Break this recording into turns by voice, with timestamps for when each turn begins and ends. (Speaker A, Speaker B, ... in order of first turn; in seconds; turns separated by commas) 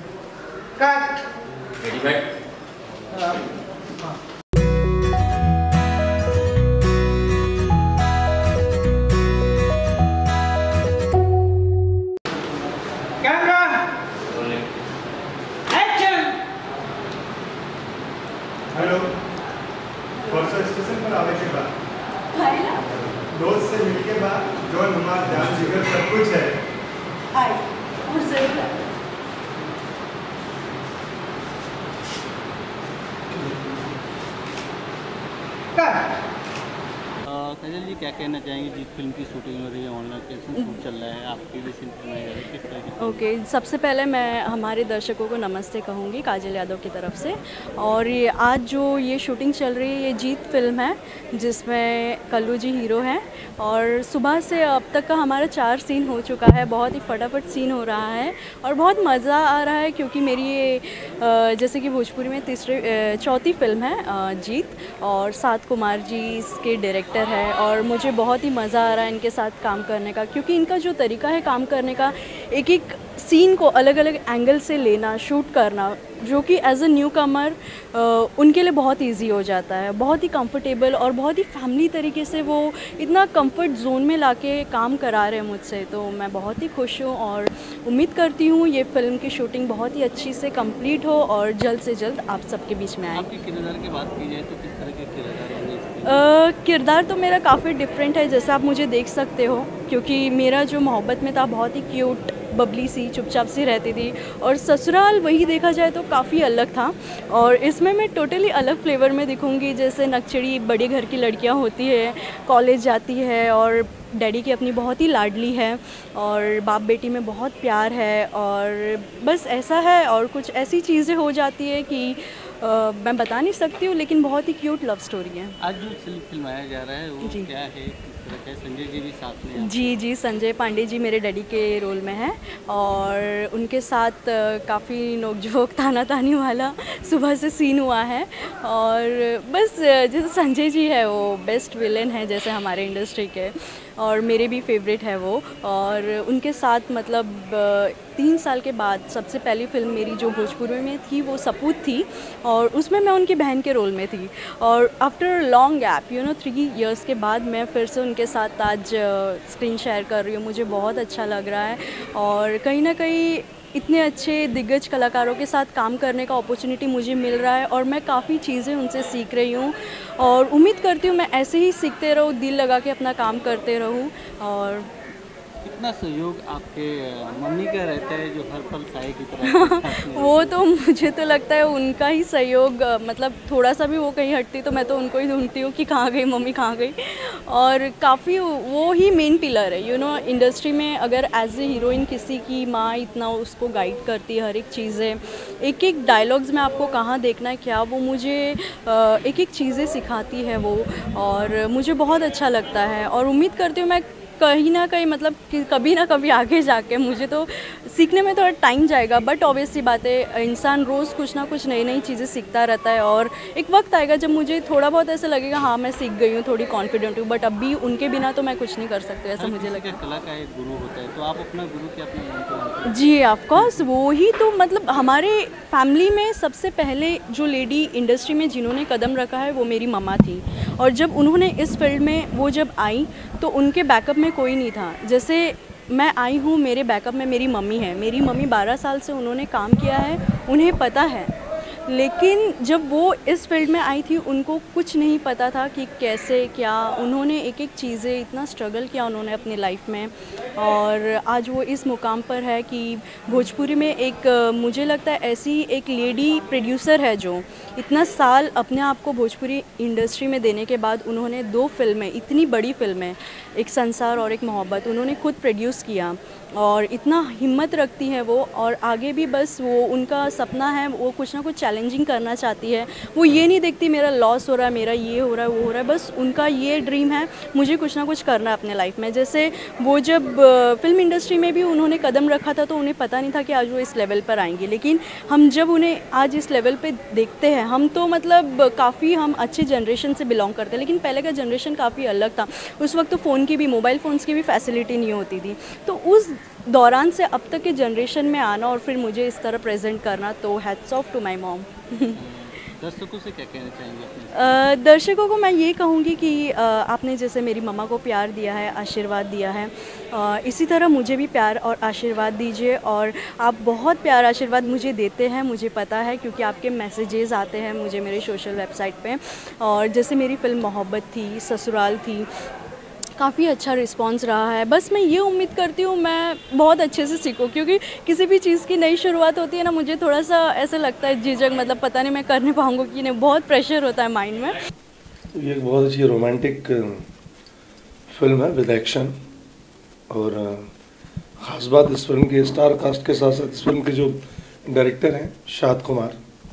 Speaker A: 18.7-19.1, Speaker B: 20.1-20.5, Speaker A: 20.3-21.7, Speaker B: 22.3-22.9, Speaker A: 23.2-26.6, Speaker B: 27.3-28.8, Speaker C: 37.2-43.2, Speaker B: 43.0-93.3, Speaker C: 93.1-96.2, Speaker B: 96.0-125.5, Speaker C: 125.6-130.0, Speaker B: 129.6-174.9, Speaker C: 175.6-180.6, Speaker B: 179.4-220.0, Speaker C: 219.4-223.8, Speaker B: 222.9-241.3, Speaker B: 241.8-302.1, Speaker C: 302.1-304.6, Speaker B: 304.3-322.3, Speaker B: 323.2-334.6, Speaker D: 335.4-337.0, Speaker D: 338.1-339.1, Speaker D: 340.1-340.7, Speaker D: 341.4-346.2